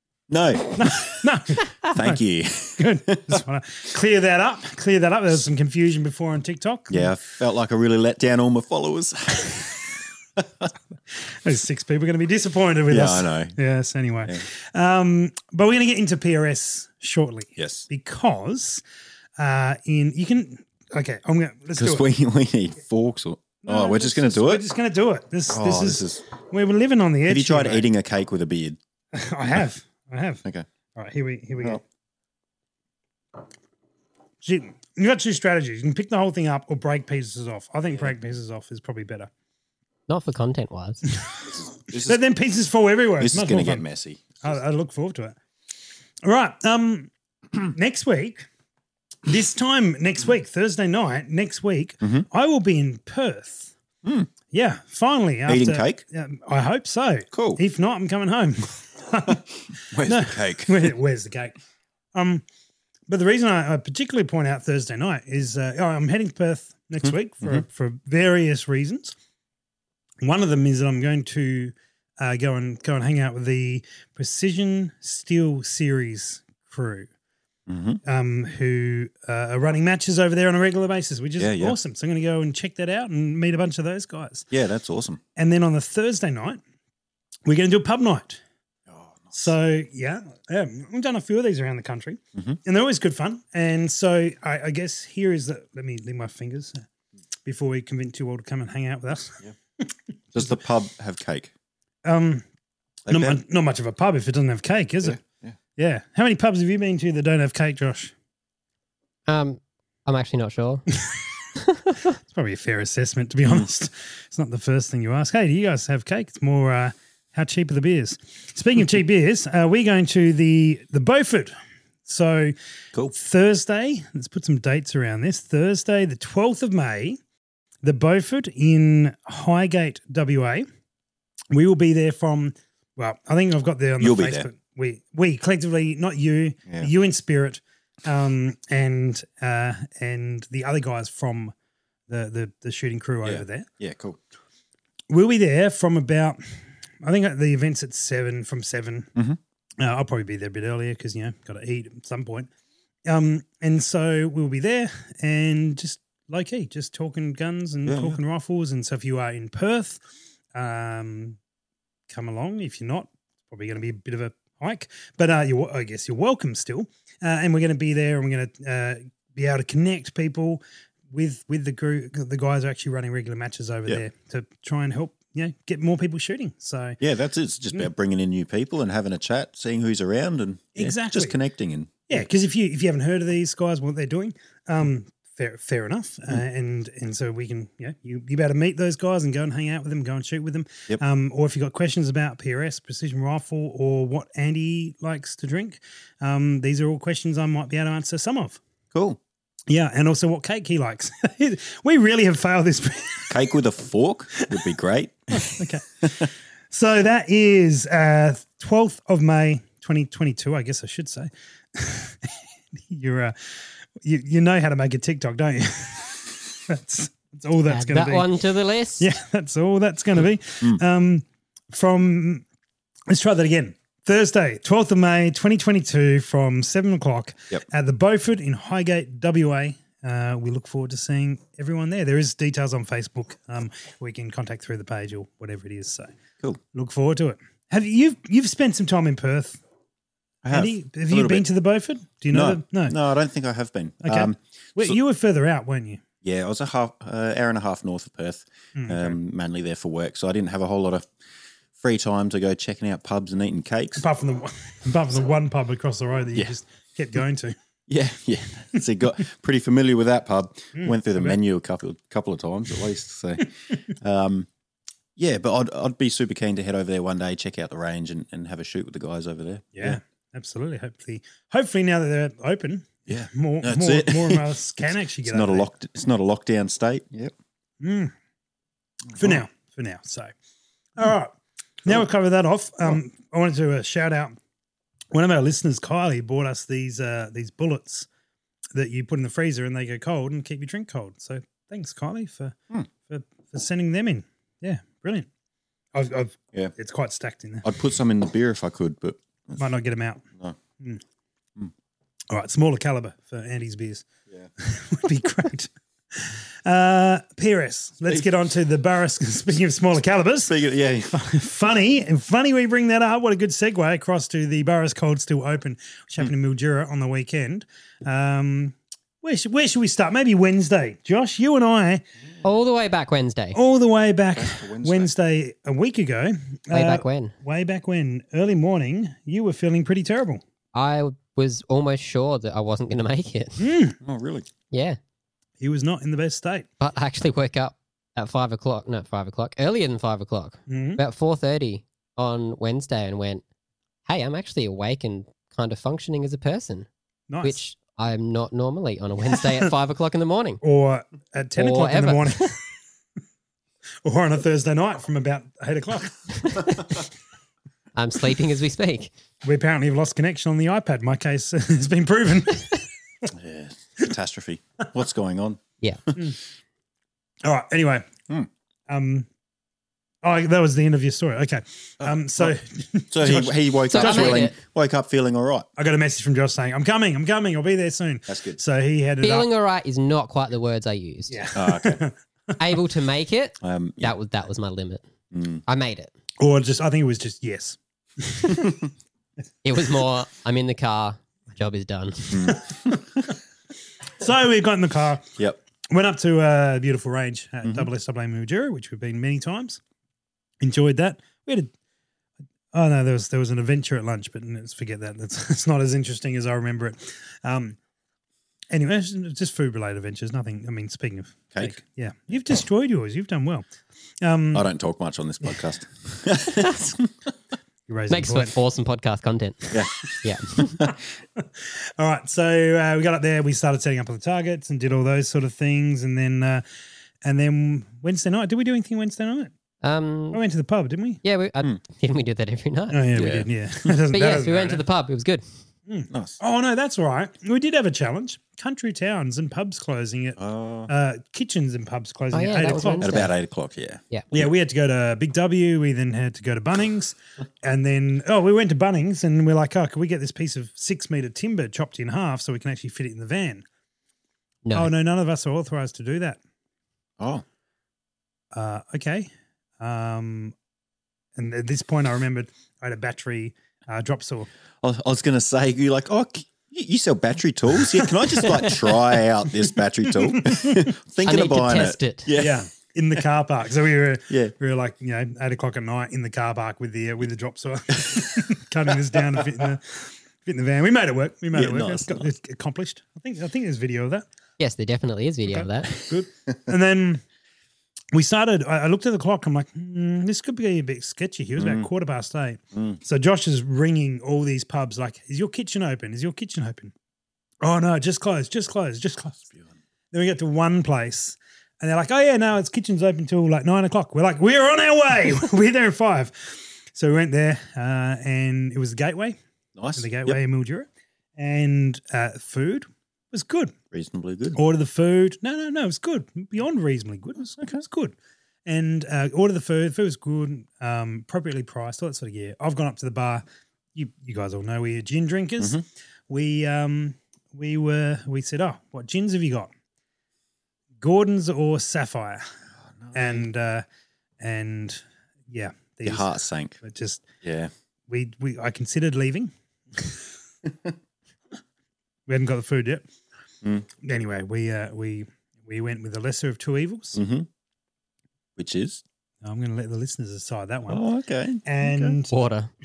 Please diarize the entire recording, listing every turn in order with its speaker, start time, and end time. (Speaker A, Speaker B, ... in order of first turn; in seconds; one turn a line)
Speaker A: 0.3-1.2
Speaker B: 0.8-2.2
Speaker A: 1.8-3.4
Speaker B: 2.8-7.1
Speaker A: 6.9-10.7
Speaker B: 11.2-18.8
Speaker A: 12.9-13.5
Speaker A: 17.6-17.9
Speaker B: 19.4-22.1
Speaker A: 21.8-24.6
Speaker B: 23.6-27.9
Speaker A: 25.5-26.2
Speaker A: 27.3-28.8
Speaker B: 29.1-30.4
Speaker B: 30.9-31.8
Speaker B: 34.4-39.3
Speaker C: 40.1-41.0
Speaker A: 41.7-42.2
Speaker B: 42.0-43.9
Speaker A: 43.2-44.6
Speaker B: 44.4-45.4
Speaker B: 46.2-48.5
Speaker B: 49.2-53.7
Speaker A: 54.0-54.3
Speaker B: 54.5-61.5
Speaker A: 55.5-56.0
Speaker A: 57.3-57.6
Speaker A: 59.3-60.9
Speaker B: 62.1-62.4
Speaker B: 63.1-69.1
Speaker A: 67.0-67.6
Speaker B: 70.2-77.1
Speaker A: 77.7-78.0
Speaker B: 78.0-84.5
Speaker A: 81.4-81.8
Speaker A: 84.5-85.2
Speaker B: 85.3-86.6
Speaker B: 87.5-88.4
Speaker A: 88.9-89.3
Speaker B: 89.3-96.8
Speaker B: 97.5-99.9
Speaker A: 100.3-101.5
Speaker B: 102.0-102.5
Speaker A: 103.1-103.4
Speaker B: 103.1-105.2
Speaker A: 105.0-105.5
Speaker B: 105.8-108.1
Speaker C: 109.3-110.8
Speaker C: 111.6-112.0
Speaker B: 112.3-121.5
Speaker B: 122.0-122.5
Speaker B: 123.1-127.2
Speaker B: 127.8-130.7
Speaker B: 131.5-141.5
Speaker A: 134.0-134.5
Speaker B: 142.1-143.7
Speaker A: 143.2-144.2
Speaker B: 145.1-146.4
Speaker B: 147.0-149.1
Speaker B: 149.8-152.5
Speaker B: 153.1-160.0
Speaker A: 157.8-158.2
Speaker B: 160.5-161.4
Speaker B: 162.1-177.0
Speaker A: 177.0-182.2
Speaker B: 180.7-181.3
Speaker B: 182.1-198.6
Speaker A: 198.9-199.2
Speaker B: 199.7-203.3
Speaker A: 203.3-206.3
Speaker B: 205.3-218.3
Speaker C: 217.7-219.1
Speaker B: 219.0-222.4
Speaker B: 223.1-236.1
Speaker B: 236.7-239.6
Speaker A: 240.4-241.4
Speaker B: 240.5-242.9
Speaker A: 242.3-245.0
Speaker B: 244.0-246.0
Speaker A: 246.2-251.1
Speaker B: 248.7-249.2
Speaker A: 251.8-254.0
Speaker B: 253.9-257.6
Speaker A: 257.9-264.5
Speaker B: 260.7-261.4
Speaker A: 265.1-270.0
Speaker B: 269.7-275.7
Speaker A: 273.1-274.6
Speaker A: 275.2-277.3
Speaker B: 277.8-278.1
Speaker A: 279.1-279.4
Speaker B: 279.1-280.3
Speaker B: 281.0-284.4
Speaker B: 285.1-288.1
Speaker B: 288.7-295.3
Speaker B: 295.9-297.6
Speaker A: 297.6-299.6
Speaker B: 299.6-300.2
Speaker B: 302.3-304.1
Speaker B: 304.6-322.0
Speaker A: 310.5-311.1
Speaker C: 322.4-323.6
Speaker B: 323.5-330.4
Speaker A: 324.3-325.1
Speaker C: 326.7-327.3
Speaker C: 330.7-333.7
Speaker B: 333.6-334.0
Speaker A: 334.0-334.5
Speaker C: 334.7-335.0
Speaker B: 335.6-336.7
Speaker C: 336.8-343.4
Speaker B: 340.7-341.0
Speaker C: 344.1-346.9
Speaker B: 347.3-347.6
Speaker C: 347.4-350.6
Speaker B: 349.2-349.7
Speaker B: 350.6-352.6
Speaker C: 351.6-352.6
Speaker B: 354.0-356.8
Speaker C: 356.6-356.8
Speaker C: 357.9-359.1
Speaker B: 359.4-362.8
Speaker A: 363.3-366.2
Speaker B: 367.4-368.1
Speaker B: 368.9-369.3
Speaker B: 370.2-374.4
Speaker A: 372.0-372.5
Speaker A: 373.1-375.7
Speaker C: 373.9-374.6
Speaker B: 375.8-379.5
Speaker A: 378.3-378.6
Speaker C: 379.2-381.5
Speaker B: 381.3-382.1
Speaker A: 381.5-382.0
Speaker C: 382.6-385.0
Speaker A: 383.6-384.1
Speaker A: 385.3-385.6
Speaker C: 385.6-386.1
Speaker B: 386.4-388.8
Speaker A: 388.5-388.8
Speaker C: 389.6-392.6
Speaker A: 392.3-393.2
Speaker B: 394.2-395.3
Speaker B: 395.9-399.8
Speaker B: 400.6-401.7
Speaker B: 402.7-407.8
Speaker B: 408.7-413.6
Speaker B: 414.2-414.6
Speaker A: 414.5-417.1
Speaker B: 417.9-418.5
Speaker C: 418.1-420.8
Speaker A: 419.7-421.0
Speaker B: 421.4-426.6
Speaker B: 427.2-429.5
Speaker C: 429.8-430.4
Speaker B: 430.3-431.2
Speaker C: 431.2-433.3
Speaker B: 432.9-434.8
Speaker A: 433.1-433.5
Speaker C: 434.1-435.4
Speaker B: 435.9-443.2
Speaker A: 436.1-436.4
Speaker A: 440.4-440.9
Speaker C: 442.3-443.3
Speaker A: 443.0-444.5
Speaker B: 444.3-453.6
Speaker C: 454.6-454.9
Speaker B: 454.7-456.4
Speaker A: 457.2-457.4
Speaker B: 458.5-460.5
Speaker B: 461.4-464.5
Speaker A: 464.8-472.6
Speaker B: 468.0-468.8
Speaker B: 470.1-470.9
Speaker C: 471.2-472.4
Speaker B: 472.4-484.2
Speaker A: 481.5-482.3
Speaker C: 484.6-485.9
Speaker B: 485.5-487.2
Speaker B: 488.1-496.9
Speaker A: 491.6-491.9
Speaker A: 492.7-493.0
Speaker B: 497.6-499.5
Speaker B: 500.1-509.4
Speaker A: 509.8-510.4
Speaker B: 509.9-513.7
Speaker A: 513.9-514.6
Speaker B: 514.5-523.4
Speaker B: 523.9-529.7
Speaker B: 531.0-532.4
Speaker A: 533.0-533.4
Speaker B: 533.1-533.8
Speaker B: 534.4-537.3
Speaker A: 536.0-536.8
Speaker A: 537.4-537.7
Speaker B: 538.1-540.2
Speaker B: 542.3-543.0
Speaker B: 544.0-547.2
Speaker A: 547.1-547.5
Speaker A: 548.6-549.0
Speaker B: 549.4-551.0
Speaker A: 550.9-552.2
Speaker B: 551.6-552.3
Speaker C: 552.3-552.7